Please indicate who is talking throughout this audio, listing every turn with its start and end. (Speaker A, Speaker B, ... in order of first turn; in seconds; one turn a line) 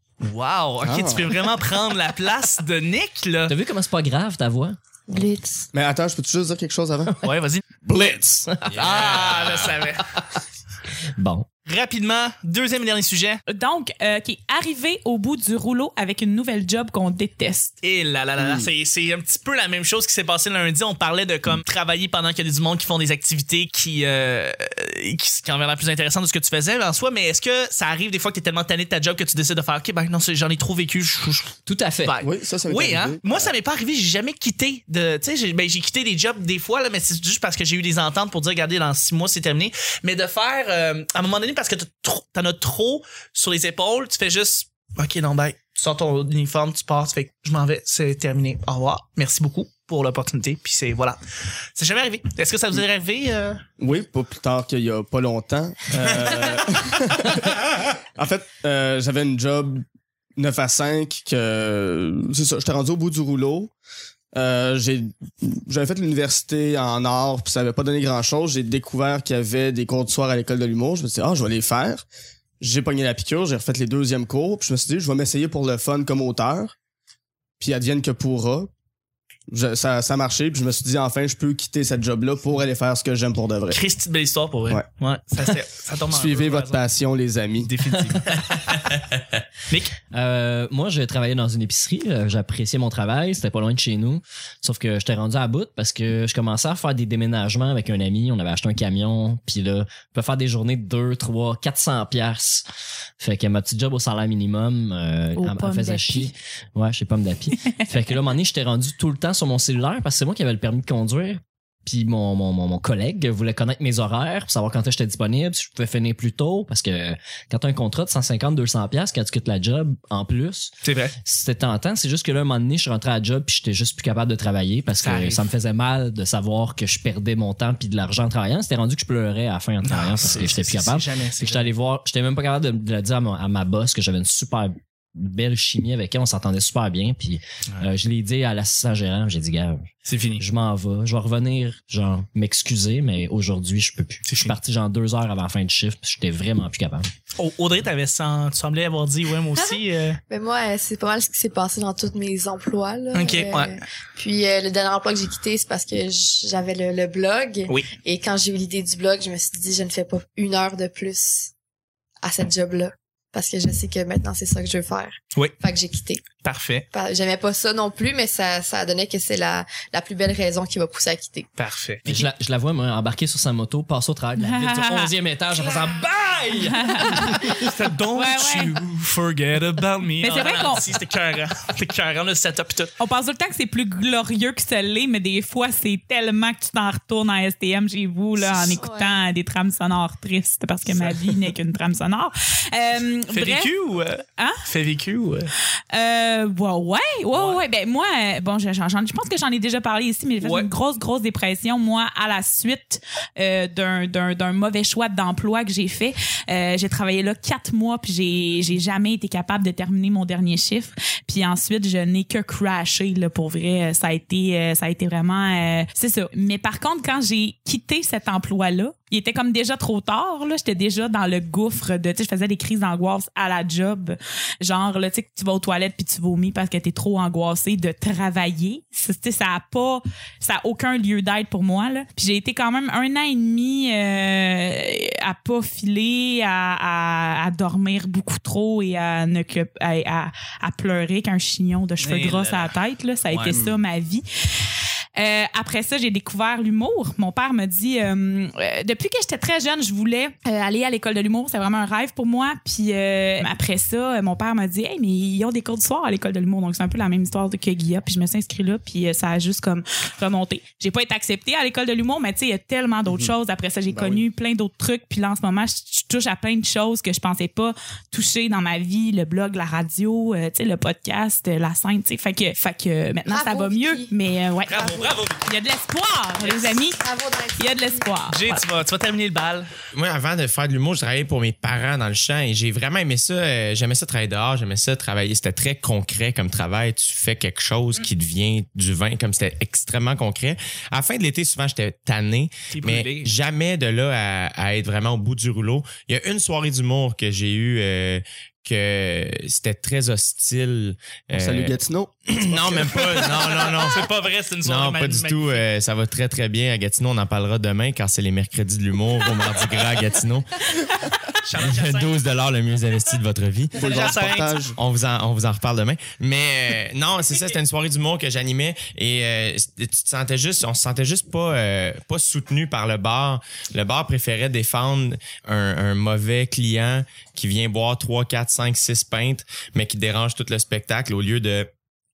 Speaker A: 0.2-3.5
Speaker B: 0.8-1.4
Speaker C: 3.5-4.8
Speaker D: 5.1-5.7
Speaker B: 5.7-7.1
Speaker C: 7.1-7.3
Speaker A: 7.2-7.7
Speaker C: 7.8-10.2
Speaker E: 8.7-9.7
Speaker A: 8.7-10.1
Speaker C: 11.2-11.5
Speaker A: 11.7-13.4
Speaker F: 13.5-17.7
Speaker A: 17.8-51.2
Speaker B: 18.4-18.7
Speaker C: 31.6-32.2
Speaker B: 32.2-33.5
Speaker A: 51.7-53.6
Speaker B: 53.8-59.8
Speaker B: 60.4-63.7
Speaker B: 64.3-72.0
Speaker B: 72.6-76.7
Speaker B: 77.6-78.7
Speaker B: 79.5-83.8
Speaker A: 83.7-86.8
Speaker B: 86.1-87.7
Speaker A: 87.6-88.7
Speaker A: 89.7-89.9
Speaker C: 90.1-102.7
Speaker C: 103.2-147.1
Speaker F: 105.3-106.3
Speaker A: 120.8-121.2
Speaker A: 125.0-125.5
Speaker A: 129.8-131.7
Speaker A: 140.1-140.4
Speaker A: 144.2-144.6
Speaker A: 147.4-150.2
Speaker D: 150.3-161.5
Speaker A: 153.1-153.8
Speaker D: 162.2-166.2
Speaker A: 166.4-166.9
Speaker D: 166.9-171.5
Speaker A: 171.6-172.1
Speaker C: 172.0-177.7
Speaker F: 174.4-175.1
Speaker F: 176.7-177.5
Speaker A: 177.3-182.9
Speaker F: 178.1-178.8
Speaker F: 180.2-180.9
Speaker F: 183.0-193.7
Speaker D: 188.5-189.2
Speaker A: 190.9-191.3
Speaker A: 193.3-195.5
Speaker F: 194.4-194.6
Speaker F: 195.9-277.0
Speaker A: 197.3-197.6
Speaker A: 200.4-200.7
Speaker A: 242.0-242.7
Speaker A: 243.3-243.6
Speaker B: 243.5-243.8
Speaker B: 263.1-263.3
Speaker B: 263.9-264.2
Speaker D: 273.3-274.1
Speaker A: 274.7-275.5
Speaker D: 276.9-278.1
Speaker F: 277.6-278.6
Speaker A: 278.3-279.7
Speaker E: 279.9-301.8
Speaker A: 292.7-293.3
Speaker B: 301.3-303.6
Speaker E: 302.3-304.1
Speaker A: 303.0-305.6
Speaker E: 304.6-310.6
Speaker A: 311.4-312.3
Speaker E: 311.6-331.7
Speaker B: 313.7-314.8
Speaker A: 313.8-314.7